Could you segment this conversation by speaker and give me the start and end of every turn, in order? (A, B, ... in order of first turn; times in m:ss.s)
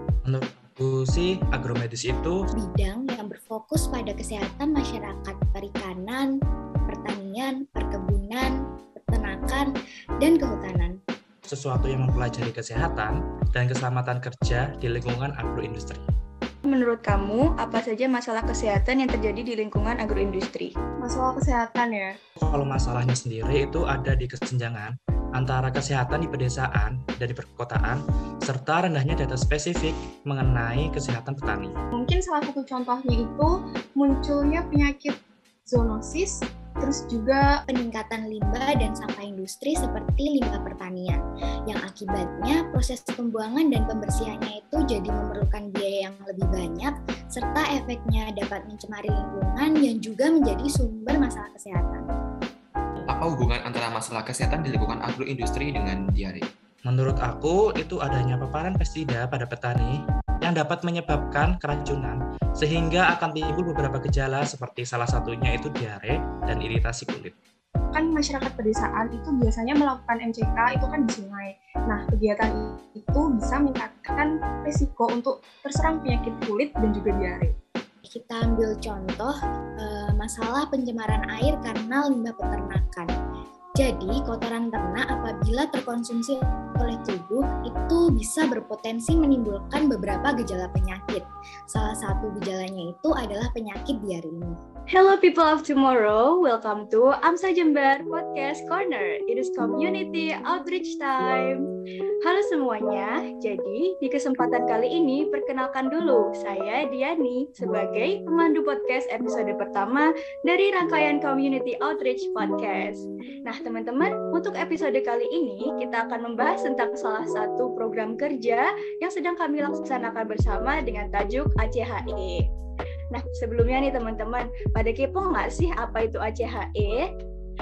0:00.2-0:02.5 A
0:02.5-0:06.3 B
0:06.9-0:11.0 B
0:11.5-0:16.0 A
0:16.6-0:20.7 C
0:21.0-0:22.2 D
0:22.4-0:31.7 A
0:31.9-0:37.5 D
0:37.7-0:52.0 B
0:53.0-0:56.5 E
0:56.8-1:07.3 A
1:07.9-1:17.6 D
1:18.1-1:23.1 B
1:23.8-1:34.6 B
1:34.9-1:41.7 C
1:42.2-2:02.4 C
2:03.1-2:07.0 C